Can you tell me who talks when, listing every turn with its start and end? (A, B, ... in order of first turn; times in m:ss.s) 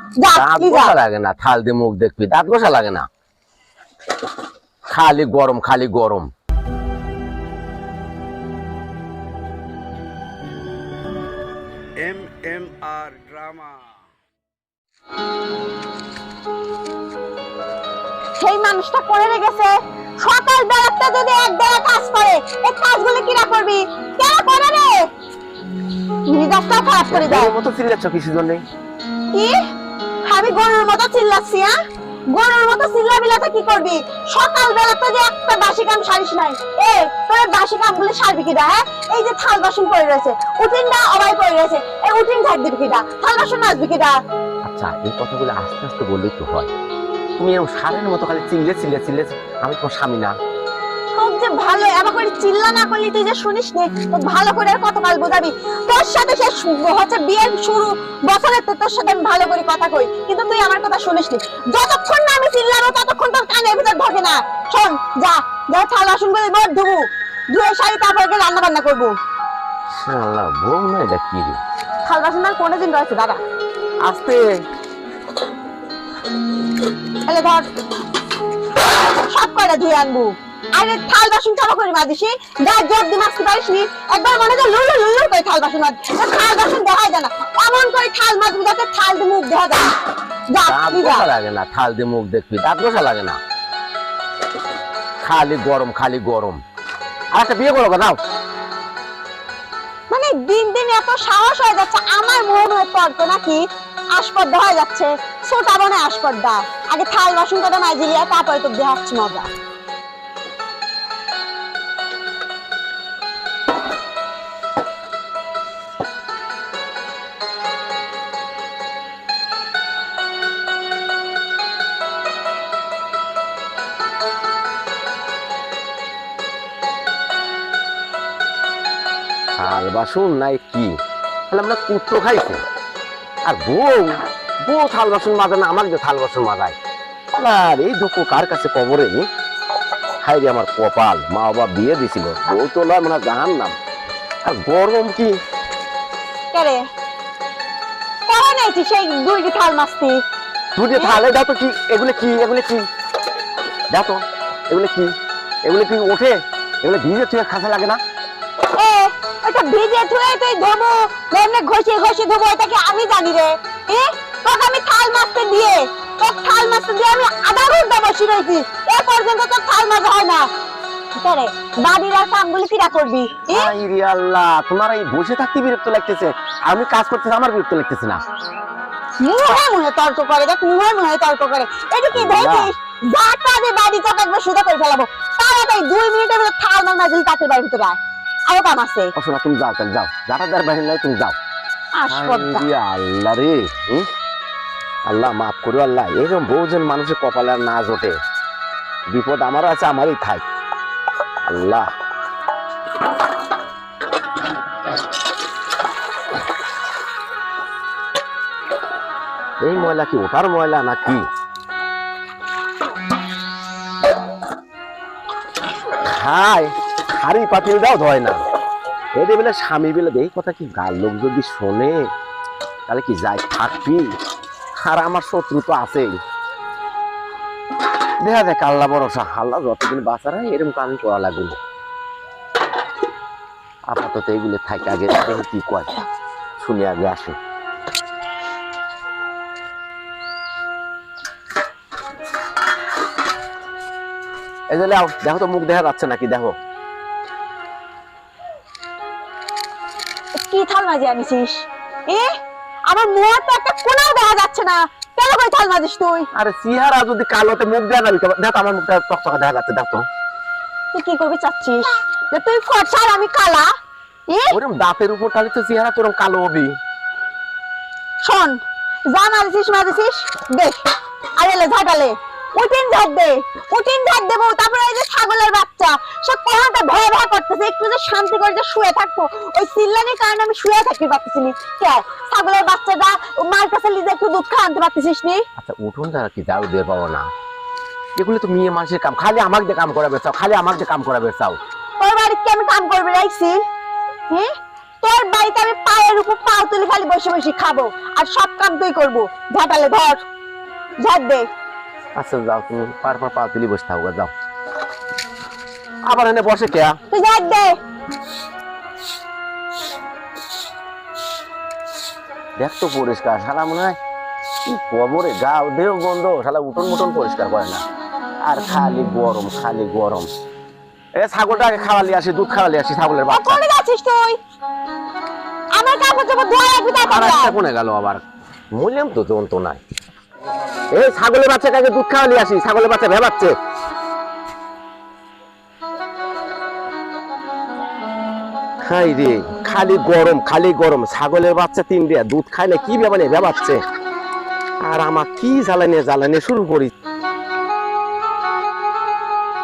0:00.2-0:00.9 A
0:00.3-0:03.1 B
0:04.9-0:06.3 B
0:12.0-0:13.9 C
0:18.4-0:25.0 A
0:26.3-0:27.5 A
0:27.1-0:28.6 B
0:30.2-0:31.7 A
0:32.3-0:44.1 A
0:44.6-0:46.7 B
0:47.4-0:50.3 B
0:51.1-1:07.0 A
1:07.5-1:09.1 A
1:10.0-1:11.6 B
1:12.0-1:13.4 A
1:14.0-1:14.5 B
1:17.2-1:17.7 A
1:19.1-1:29.9 A
1:30.5-1:31.2 A
1:30.6-1:33.4 B
1:35.2-1:36.6 B
1:37.3-1:38.2 B
1:40.1-1:49.5 A
2:09.6-2:11.0 B
2:11.5-2:12.6 B
2:13.4-2:16.7 B
2:17.4-2:19.2 B
2:20.2-2:23.8 B
2:24.4-2:25.3 B
2:26.5-2:26.8 A
2:28.3-2:30.2 A
2:30.8-2:32.8 B
2:33.9-2:35.1 B
2:35.6-2:38.0 B
2:38.7-2:50.5 A
2:51.2-2:53.7 A
2:53.5-2:58.2 B
2:59.2-3:09.1 A
3:02.1-3:02.7 B
3:09.2-3:11.4 B
3:11.9-3:12.7 A
3:12.1-3:14.1 B
3:15.0-3:18.2 B
3:19.1-3:20.4 B
3:21.4-3:21.9 B
3:29.6-3:31.2 B
3:36.0-3:38.4 B
3:39.1-3:42.0 B
3:42.9-3:44.1 B
3:44.8-3:46.1 B
3:48.2-3:51.6 B
3:53.9-3:56.0 B
3:56.6-3:57.4 B
4:04.7-4:06.6 B
4:10.4-4:12.3 A
4:12.9-4:16.3 A
4:16.3-4:20.0 B
4:20.9-4:23.7 A
4:24.3-4:24.5 A
4:24.5-4:26.7 B
4:28.2-4:30.8 A
4:31.4-4:45.4 A
4:45.6-4:47.3 B
4:48.2-4:51.6 B
4:52.0-4:53.6 A
4:54.3-5:00.2 A
5:01.0-5:01.5 A
5:02.2-5:04.3 B
5:06.1-5:07.0 B
5:07.1-5:07.8 A
5:12.6-5:14.0 B
5:14.6-5:17.8 B
5:18.4-5:20.3 B
5:21.2-5:23.6 B
5:23.3-5:24.4 A
5:25.7-5:27.5 A
5:27.1-5:28.2 B
5:28.7-5:29.8 B
5:30.9-5:33.5 B
5:38.8-5:43.8 B
5:44.8-5:46.9 B